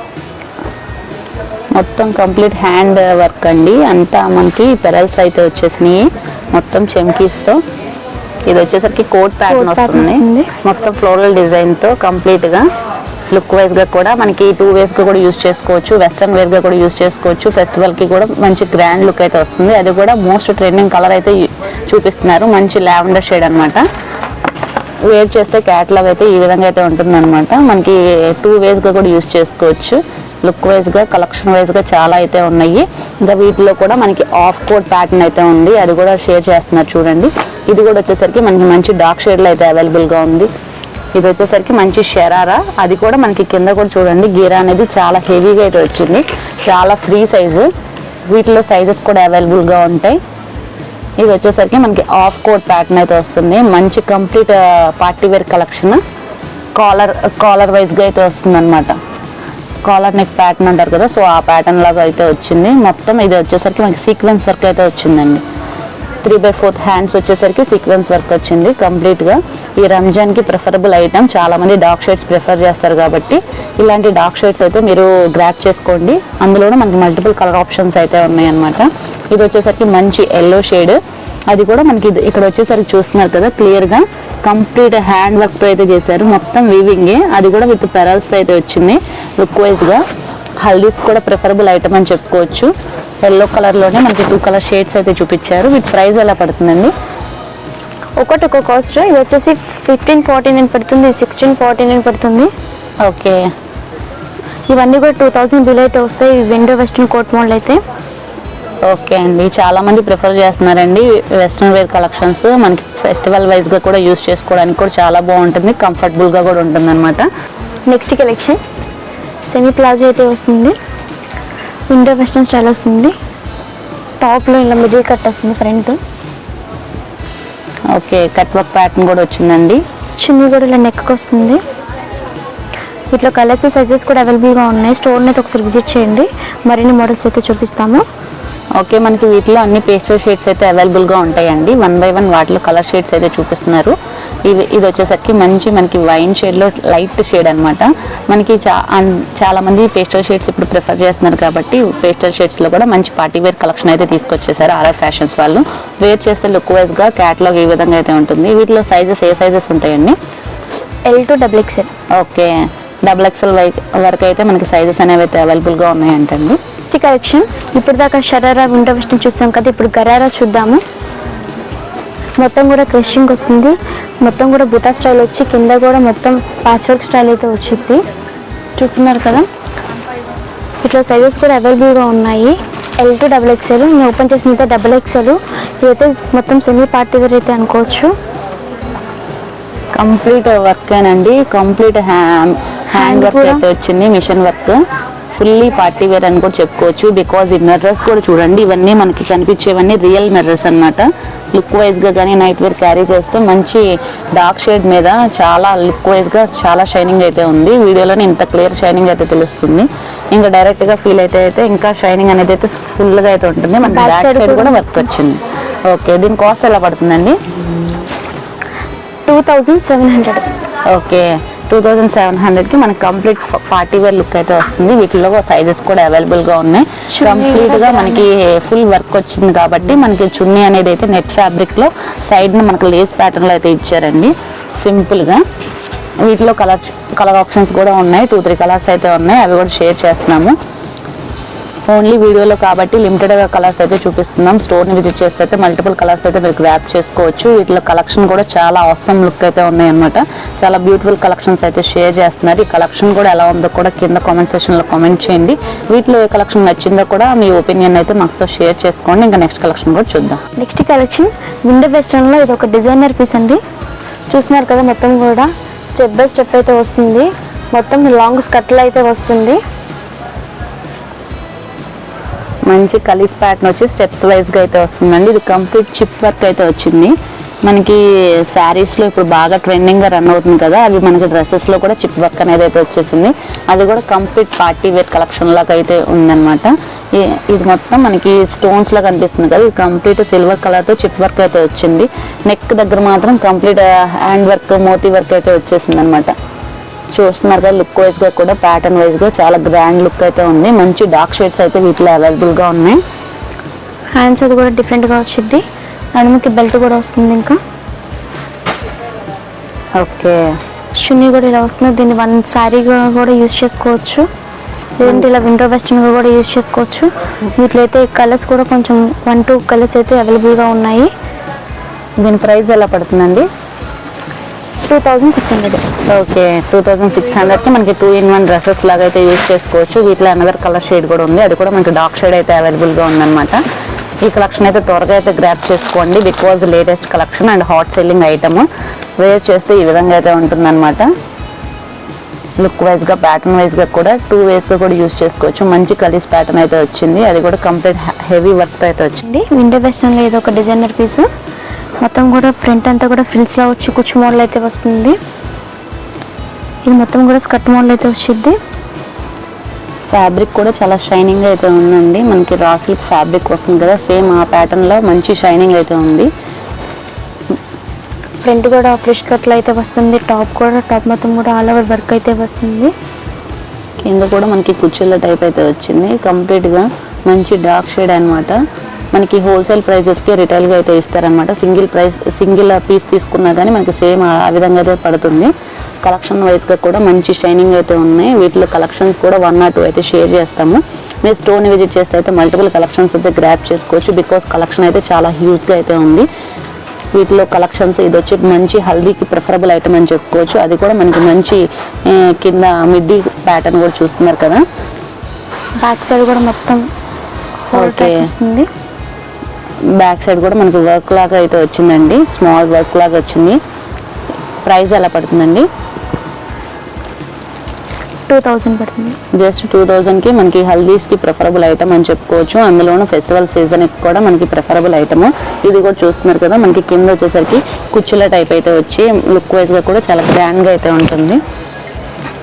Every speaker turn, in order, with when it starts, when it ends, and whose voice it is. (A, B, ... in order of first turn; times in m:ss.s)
0:01.8-0:07.6 A
0:08.5-0:12.7 A
0:09.5-0:10.5 B
0:13.3-0:23.8 A
0:25.1-0:40.5 A
0:41.2-0:47.7 A
0:48.3-0:50.2 A
0:51.2-0:56.0 A
0:56.8-0:59.0 A
0:59.8-1:05.4 A
1:06.2-1:21.0 A
1:21.5-1:30.0 A
1:30.6-1:32.7 A
1:33.2-1:36.9 A
1:38.2-1:42.5 B
1:43.0-1:43.5 A
1:44.7-1:47.8 B
1:48.9-1:57.3 A
1:57.9-1:58.6 B
1:59.5-2:00.8 B
2:01.9-2:03.1 B
2:04.2-2:06.0 B
2:07.9-2:09.8 A
2:10.2-2:11.6 B
2:13.1-2:18.0 B
2:18.8-2:24.0 A
2:24.5-2:40.2 A
2:41.1-2:41.9 B
2:42.2-2:42.5 A
2:43.0-2:46.6 A
2:46.9-2:50.8 B
2:52.4-2:58.0 B
2:58.8-2:59.5 B
3:00.8-3:08.1 B
3:10.0-3:14.8 A
3:12.9-3:13.6 B
3:15.4-3:23.8 A
3:24.4-3:37.4 A
3:33.8-3:35.0 B
3:39.3-3:40.4 B
3:40.9-3:55.4 A
3:47.1-3:48.3 B
3:56.2-4:00.6 A
4:01.9-4:20.4 A
4:20.6-4:23.6 B
4:24.3-4:29.6 B
4:32.7-4:37.1 A
4:37.7-4:56.3 A
4:57.1-5:03.0 A
5:04.2-5:05.6 B
5:06.2-5:07.6 B
5:10.0-5:10.4 A
5:11.0-5:14.2 B
5:15.0-5:21.1 B
5:15.0-5:15.3 A
5:22.2-5:23.5 A
5:24.9-5:25.8 B
5:26.1-5:33.6 A
5:34.2-5:41.1 A
5:42.6-5:49.2 A
5:49.2-5:51.3 B
5:52.0-5:55.2 B
5:56.9-5:58.6 B
6:00.1-6:06.3 A
6:08.4-6:12.9 B
6:14.0-6:18.6 A
6:19.1-6:25.5 A
6:26.0-6:36.3 A
6:37.1-6:44.6 A
6:45.8-6:46.8 B
6:47.7-6:48.7 B
6:47.7-6:48.3 A
6:50.0-6:53.6 A
6:54.6-6:55.7 A
6:58.3-6:59.2 B
6:59.4-7:11.4 A